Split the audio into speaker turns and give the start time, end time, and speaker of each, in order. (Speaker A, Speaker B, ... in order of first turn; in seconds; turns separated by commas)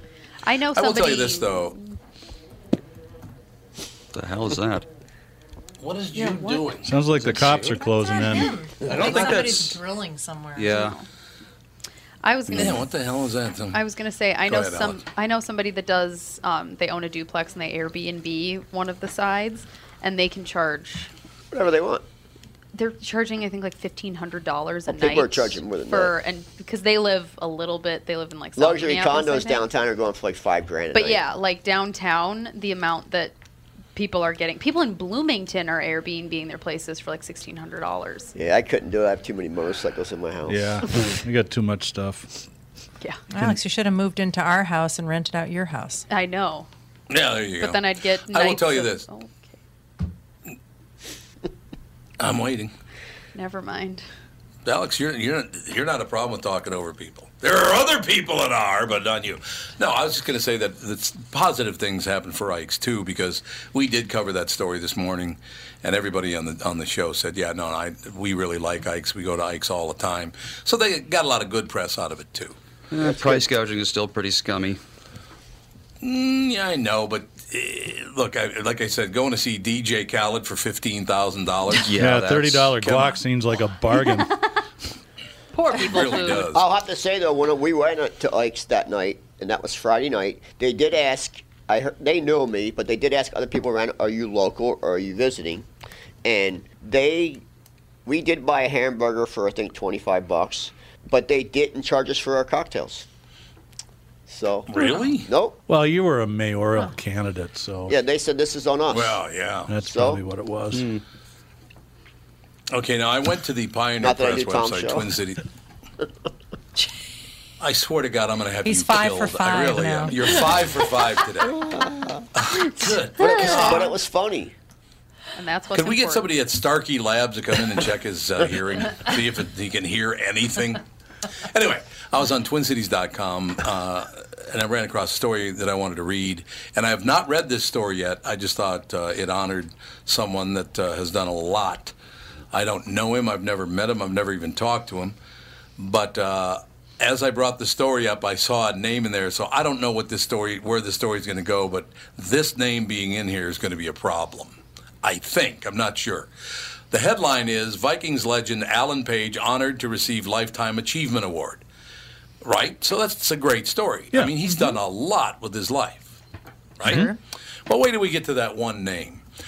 Speaker A: 0.4-1.9, Speaker B: 0.7-1.8, Speaker C: 4.1-4.9, Speaker B: 5.8-7.4, Speaker D: 6.8-8.5, Speaker E: 7.6-10.8, Speaker B: 8.8-9.8, Speaker C: 9.0-9.6, Speaker C: 10.6-10.9, Speaker A: 10.8-11.0, Speaker A: 12.2-12.9, Speaker B: 12.5-13.8, Speaker A: 13.7-21.1, Speaker B: 14.4-15.0, Speaker F: 21.5-22.0, Speaker A: 22.7-29.6, Speaker F: 24.9-26.1, Speaker F: 28.6-31.2, Speaker A: 30.9-33.4, Speaker A: 33.9-38.3, Speaker F: 38.3-40.7, Speaker D: 40.5-42.3, Speaker E: 43.3-46.0, Speaker A: 46.1-46.7, Speaker B: 47.1-49.0, Speaker A: 47.6-49.5, Speaker B: 52.2-52.7, Speaker A: 53.3-54.0, Speaker B: 54.6-72.5, Speaker C: 72.9-74.8, Speaker F: 73.0-73.5, Speaker B: 76.0-81.9, Speaker C: 81.7-82.7, Speaker D: 82.0-84.3, Speaker B: 82.8-83.2, Speaker A: 84.0-84.6, Speaker A: 85.5-86.5, Speaker B: 85.7-86.6, Speaker F: 86.5-95.7, Speaker F: 96.2-97.4, Speaker F: 98.0-103.0, Speaker F: 104.3-104.7, Speaker B: 104.7-105.3, Speaker F: 105.2-105.6, Speaker D: 105.7-107.9, Speaker F: 107.9-109.2, Speaker B: 108.9-109.7, Speaker D: 109.7-110.9, Speaker F: 109.8-110.2, Speaker C: 110.7-111.0, Speaker B: 112.7-115.4, Speaker F: 114.0-115.0, Speaker B: 117.6-121.5, Speaker E: 118.6-120.5, Speaker F: 121.6-122.1, Speaker B: 122.3-123.9, Speaker A: 123.2-123.9, Speaker F: 123.2-124.5, Speaker A: 125.3-126.3, Speaker B: 125.7-130.8, Speaker B: 131.5-141.9, Speaker B: 142.5-145.2, Speaker B: 145.8-156.3, Speaker B: 156.9-161.6, Speaker B: 162.4-166.2, Speaker D: 164.1-164.6, Speaker B: 166.8-167.1, Speaker E: 166.8-167.2, Speaker B: 167.7-169.2